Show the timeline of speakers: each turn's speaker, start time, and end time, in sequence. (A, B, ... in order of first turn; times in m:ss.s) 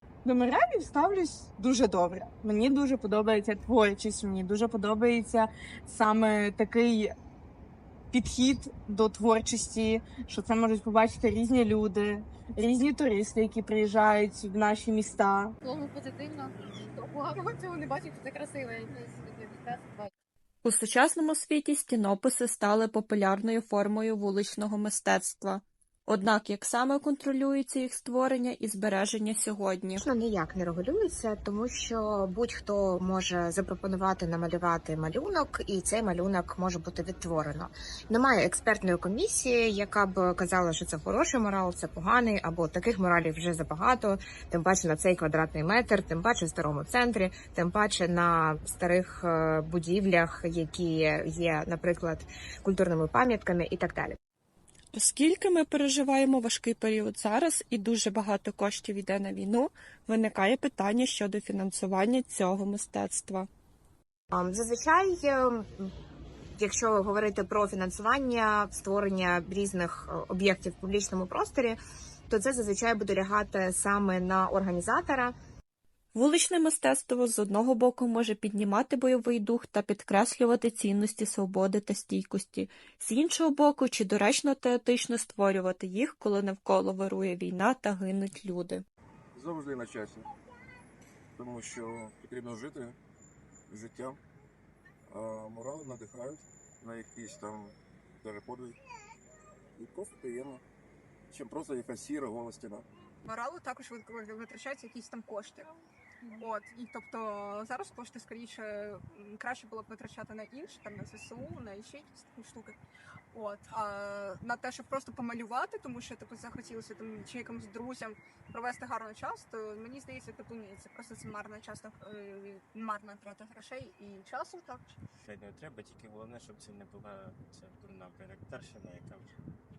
0:00.2-0:07.1 A
0:08.1-0:15.5 A
0:15.6-0:20.1 B
0:20.6-0:30.0 C
0:30.0-0:54.2 D
0:54.9-1:03.5 C
1:04.3-1:05.9 D
1:06.6-1:15.3 D
1:16.1-1:28.8 C
1:29.3-1:30.2 E
1:31.4-1:33.0 E
1:33.7-1:34.2 E
1:35.1-1:38.8 E
1:39.8-1:40.6 E
1:41.3-1:42.9 E
1:43.2-1:45.7 F
1:46.4-1:52.8 F
1:53.3-2:04.9 F
2:05.2-2:09.3 G